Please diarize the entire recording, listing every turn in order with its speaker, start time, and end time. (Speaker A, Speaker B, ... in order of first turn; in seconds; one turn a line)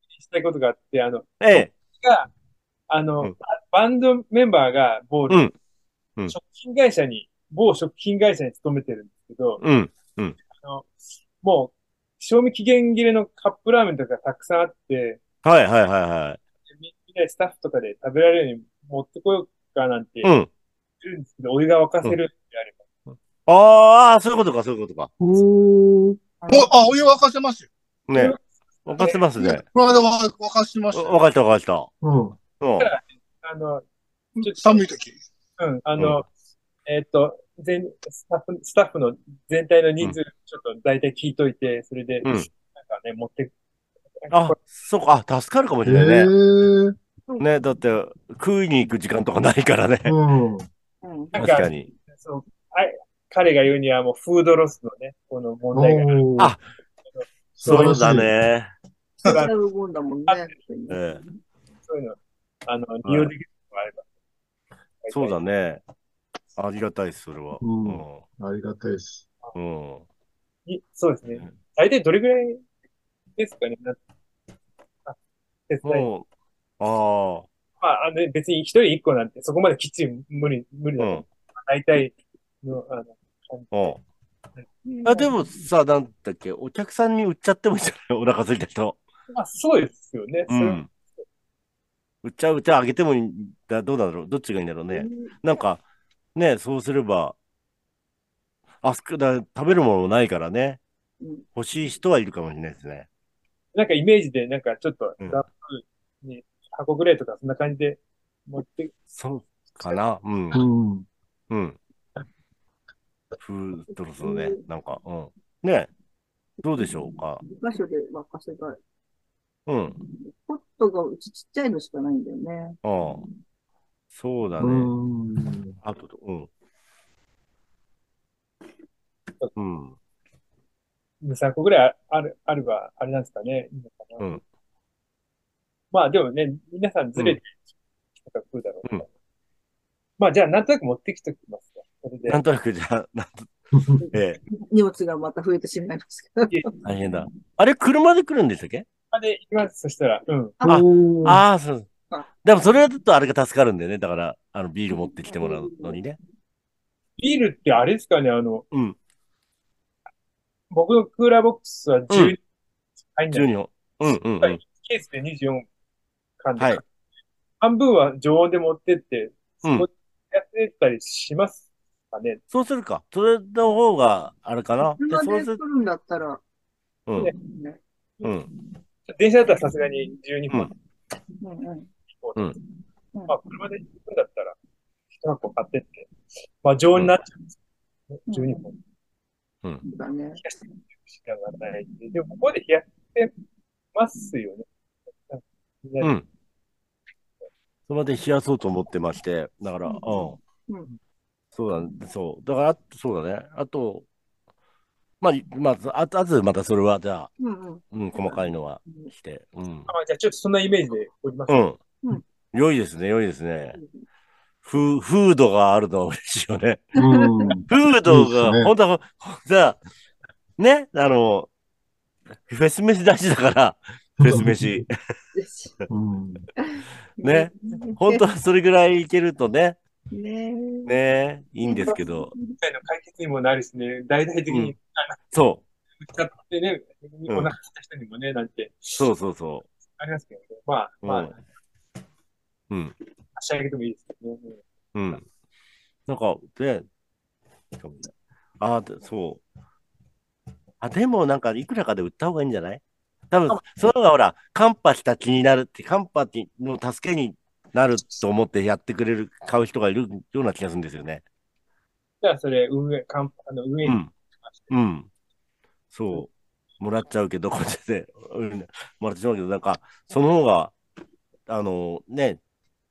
Speaker A: 0.1-2.3
Speaker B: 1.4-1.7
Speaker A: 2.9-5.5
Speaker A: 6.3-9.6
Speaker B: 9.6-10.4
Speaker A: 10.5-10.9
Speaker A: 11.4-15.2
Speaker B: 15.4-16.4
Speaker A: 16.7-20.3
Speaker B: 20.2-20.5
Speaker A: 21.0-22.8
Speaker B: 23.4-25.1
Speaker C: 25.2-26.2
Speaker D: 26.4-26.7
Speaker E: 26.5-27.7
Speaker B: 28.1-29.6
Speaker A: 28.1-28.4
Speaker A: 28.9-29.2
Speaker E: 29.4-31.2
Speaker B: 30.9-31.9
Speaker C: 32.0-32.4
Speaker B: 32.6-32.9
Speaker A: 32.8-33.8
Speaker E: 34.4-35.2
Speaker A: 34.4-34.8
Speaker A: 35.6-36.3
Speaker A: 36.9-43.5
Speaker A: 44.2-44.6
Speaker B: 44.3-46.3
Speaker C: 45.8-46.9
Speaker B: 47.4-50.1
Speaker C: 50.0-50.7
Speaker D: 51.0-51.5
Speaker A: 51.3-56.3
Speaker B: 51.4-51.9
Speaker C: 55.7-56.5
Speaker C: 57.5-58.3
Speaker B: 57.6-58.7
Speaker A: 59.2-59.5
Speaker D: 59.2-61.2
Speaker A: 60.3-60.5
Speaker B: 60.9-61.2
Speaker A: 61.8-64.0
Speaker B: 63.0-63.3
Speaker A: 65.0-65.4
Speaker B: 65.1-65.8
Speaker B: 66.6-68.2
Speaker C: 67.6-69.2
Speaker B: 69.5-70.0
Speaker A: 70.7-72.6
Speaker A: 73.4-74.0
Speaker A: 75.7-76.1
Speaker B: 75.8-76.2
Speaker B: 76.8-77.5
Speaker A: 77.8-84.0
Speaker B: 81.0-81.2
Speaker B: 83.7-84.0
Speaker D: 84.8-85.3
Speaker B: 85.0-89.0
Speaker A: 89.3-90.9
Speaker B: 90.5-90.9
Speaker B: 92.2-95.8
Speaker D: 94.9-95.3
Speaker B: 96.3-97.3
Speaker B: 98.8-100.8
Speaker B: 101.5-103.1
Speaker A: 103.7-108.9
Speaker B: 109.1-110.6
Speaker C: 110.5-111.0
Speaker B: 111.5-111.8
Speaker B: 113.4-115.9
Speaker D: 114.2-114.6
Speaker B: 116.6-117.4
Speaker D: 117.4-118.8
Speaker B: 119.7-120.0
Speaker D: 120.1-122.8
Speaker B: 122.8-123.2
Speaker B: 124.1-124.9
Speaker C: 124.6-125.8
Speaker B: 125.8-126.5
Speaker B: 129.6-129.9
Speaker A: 131.2-134.4
Speaker A: 135.9-137.6
Speaker A: 138.2-139.1
Speaker A: 140.2-142.4
Speaker B: 142.3-143.5
Speaker D: 144.0-146.8
Speaker B: 144.1-144.4
Speaker B: 146.8-148.8
Speaker A: 149.1-150.6
Speaker C: 150.6-151.4
Speaker B: 150.7-151.9
Speaker B: 152.4-156.2
Speaker D: 154.9-156.0
Speaker A: 157.2-158.7
Speaker B: 158.7-159.0
Speaker A: 160.7-162.4
Speaker B: 162.1-162.3
Speaker A: 163.1-163.5
Speaker B: 163.3-164.6
Speaker A: 164.0-165.6
Speaker A: 166.4-166.8
Speaker B: 166.6-166.8
Speaker A: 167.6-172.4
Speaker B: 172.5-175.6
Speaker D: 174.8-176.4
Speaker D: 177.3-177.8
Speaker B: 178.2-178.5
Speaker A: 179.1-180.7
Speaker D: 181.4-181.9
Speaker A: 182.1-182.6
Speaker A: 183.3-184.6
Speaker A: 185.2-186.1
Speaker A: 186.6-187.5
Speaker A: 188.1-188.8
Speaker D: 188.3-188.7
Speaker D: 189.8-190.4
Speaker A: 190.4-193.3
Speaker A: 193.9-194.6
Speaker A: 195.3-196.1
Speaker B: 196.0-196.2
Speaker B: 197.9-200.4
Speaker B: 201.5-204.1
Speaker B: 205.2-207.3
Speaker D: 207.4-209.1
Speaker B: 207.9-209.9
Speaker A: 209.9-211.7
Speaker B: 211.5-211.8
Speaker B: 212.5-213.8
Speaker D: 213.7-214.0
Speaker B: 214.6-216.9
Speaker C: 216.9-218.7
Speaker D: 217.0-217.5
Speaker B: 217.7-219.8
Speaker B: 220.6-221.5
Speaker B: 222.5-224.9
Speaker C: 224.2-224.8
Speaker D: 225.3-225.8
Speaker C: 225.9-226.5
Speaker D: 226.6-228.2
Speaker B: 227.2-229.8
Speaker D: 230.1-231.0
Speaker B: 230.8-232.3
Speaker D: 231.6-232.6
Speaker A: 232.6-235.2
Speaker B: 234.5-234.7
Speaker B: 235.3-235.6
Speaker A: 236.0-239.0
Speaker B: 239.0-239.7
Speaker A: 240.0-241.4
Speaker B: 241.0-241.3
Speaker B: 242.7-242.9
Speaker A: 243.3-244.6
Speaker B: 244.9-245.2
Speaker B: 246.1-246.9
Speaker B: 247.8-249.4
Speaker B: 250.8-261.2
Speaker A: 253.5-253.8
Speaker A: 262.2-264.7
Speaker B: 263.8-264.1
Speaker B: 264.7-265.1
Speaker B: 265.9-270.7
Speaker B: 271.5-272.4